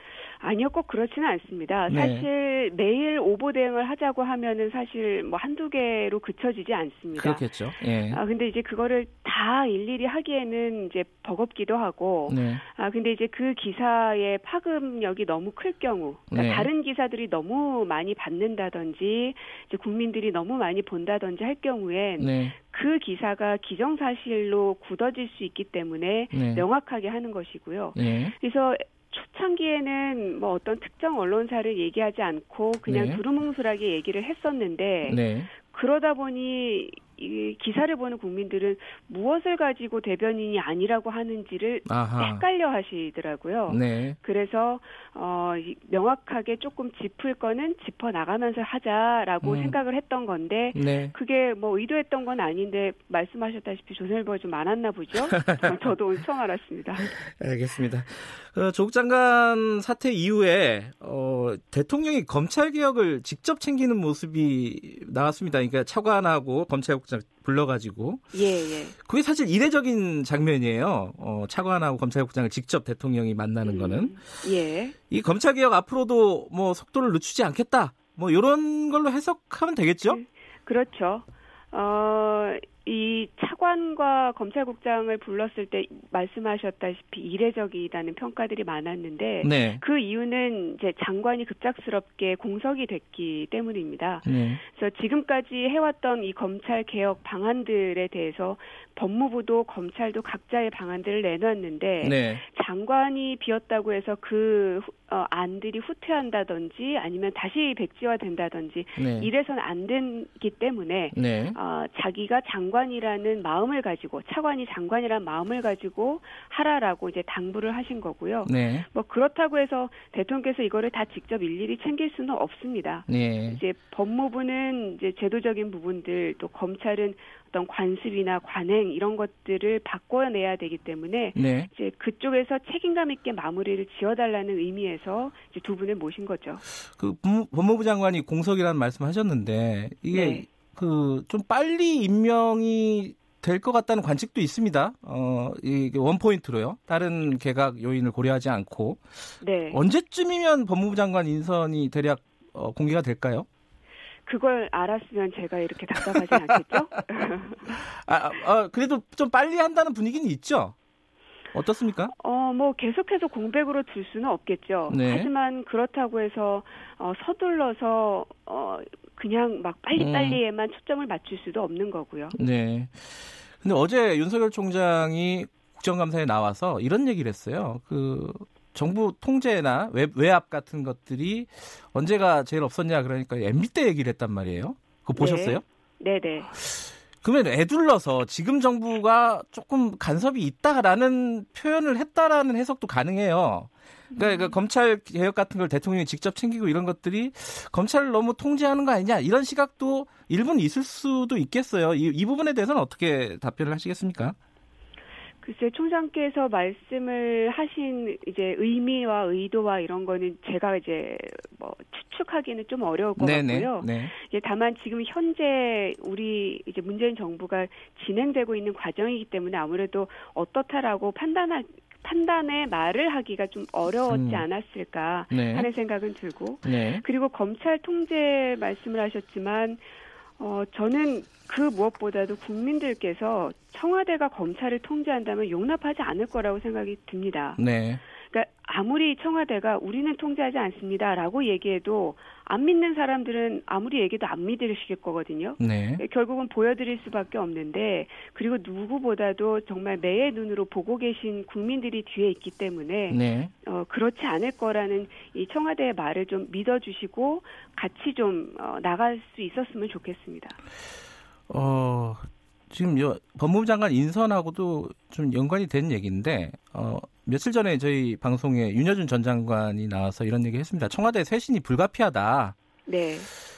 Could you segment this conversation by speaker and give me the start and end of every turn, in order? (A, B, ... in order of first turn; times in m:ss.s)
0:00.4-0:07.5 A
0:01.9-0:02.3 B
0:07.2-0:08.2 B
0:08.1-0:57.1 A
0:12.3-0:12.6 B
0:16.3-0:16.7 B
0:22.2-0:22.6 B
0:26.3-0:26.7 B
0:28.0-0:28.3 B
0:32.9-0:33.2 B
0:35.0-0:35.5 B
0:41.9-0:42.4 B
0:43.7-0:44.2 B
0:49.4-0:49.8 B
0:50.7-0:51.2 B
0:55.3-0:55.6 B
0:57.0-1:08.4 B
1:08.3-1:09.0 A
1:09.0-1:14.2 B
1:13.6-1:15.0 A
1:15.1-1:20.2 B
1:20.1-2:16.6 A
1:29.4-1:29.8 B
1:34.2-1:34.6 B
1:42.0-1:42.4 B
1:49.0-1:49.3 B
1:51.1-1:51.6 B
1:58.4-1:58.9 B
2:03.1-2:03.6 B
2:11.4-2:11.7 B
2:16.9-2:29.0 B
2:20.1-2:20.4 A
2:29.4-2:29.8 A
2:29.7-2:33.5 B
2:34.3-2:37.7 A
2:36.0-2:36.6 B
2:37.7-2:40.7 B
2:41.5-2:42.1 B
2:42.1-2:52.4 A
2:44.9-2:45.3 B
2:50.0-2:50.4 B
2:52.3-3:05.6 B
3:05.2-3:06.5 A
3:06.5-3:24.4 B
3:14.1-3:14.6 A
3:25.4-3:49.8 A
3:33.2-3:34.2 B
3:44.1-3:44.4 B
3:45.3-3:45.7 B
3:46.6-3:47.0 B
3:50.4-3:57.6 A
3:57.6-3:58.0 B
3:58.2-4:20.6 A
4:05.6-4:06.0 B
4:13.1-4:13.5 B
4:21.5-4:32.6 B
4:32.9-4:33.3 A